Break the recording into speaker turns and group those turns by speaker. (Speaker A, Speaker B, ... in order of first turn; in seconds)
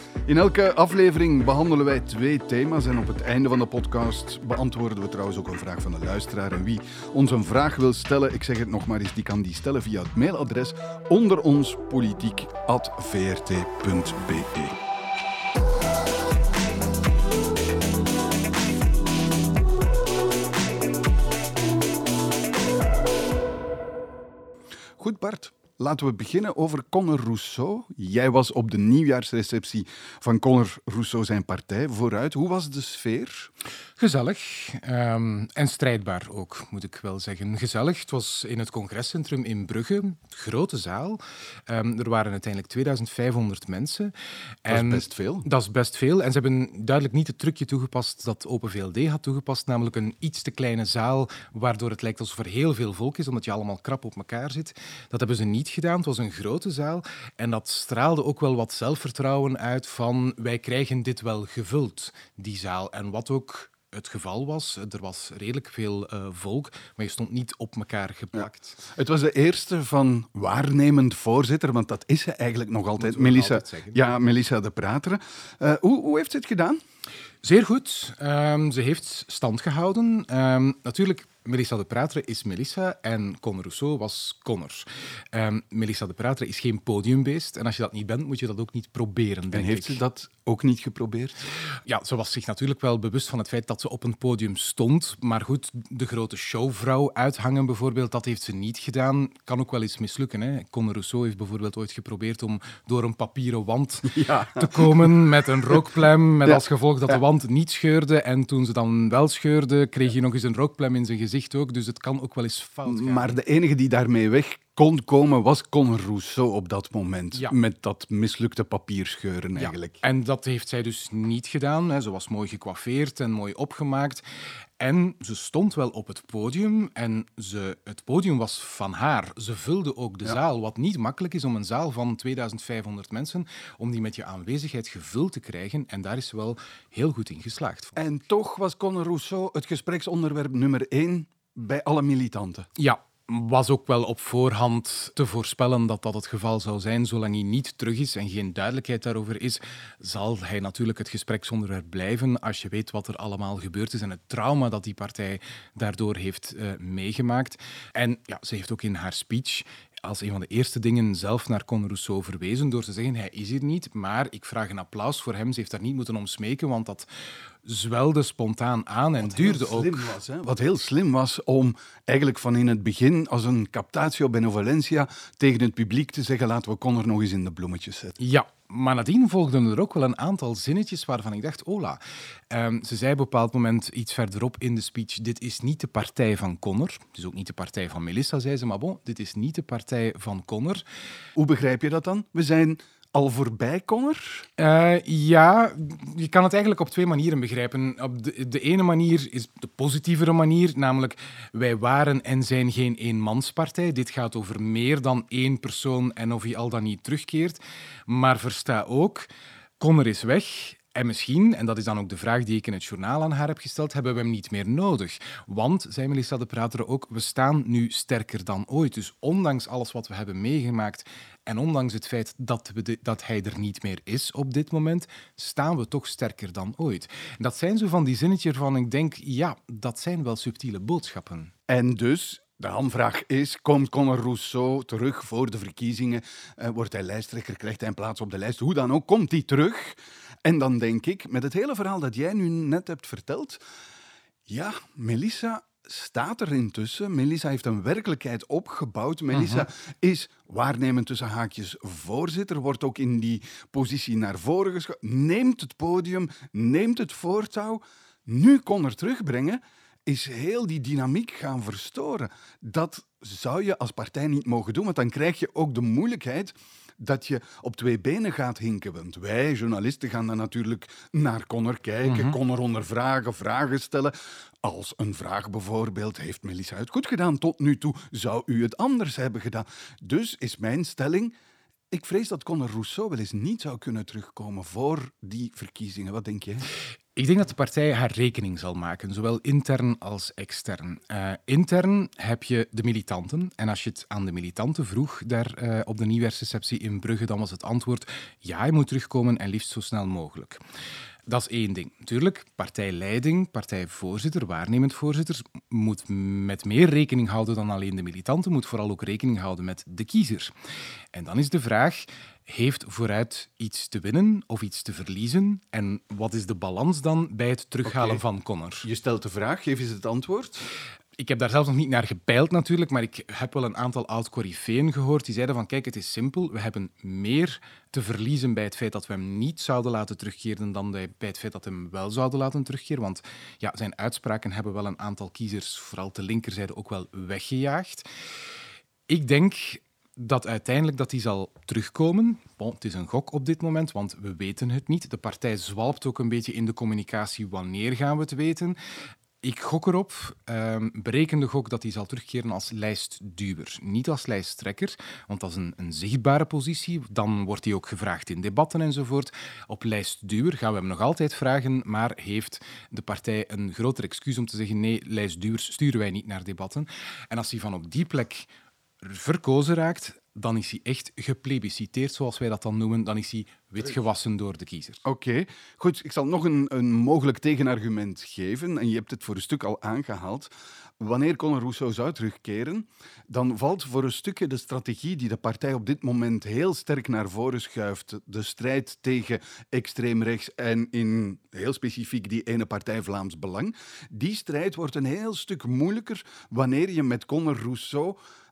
Speaker A: 0.3-14.8, 25.0-33.5, 44.7-45.5, 68.3-76.8, 89.5-91.5, 104.1-105.1, 106.4-107.2, 112.8-120.0, 137.9-142.7, 169.2-178.2, 191.3-194.5, 231.7-243.6, 244.5-281.3, 281.9-286.7, 317.8-318.2, 318.8-320.7, 375.0-398.2
Speaker B: 34.0-44.1, 44.6-68.8, 73.0-74.0, 77.4-90.0, 91.8-113.4, 119.5-124.2, 124.8-137.9, 142.8-167.1, 167.6-170.2, 178.2-182.0, 182.5-190.8, 194.6-231.5, 249.3-249.6, 272.1-272.4, 287.1-300.6, 301.3-310.5, 311.1-318.9, 321.2-338.0, 339.1-348.8, 349.4-368.5, 369.0-375.0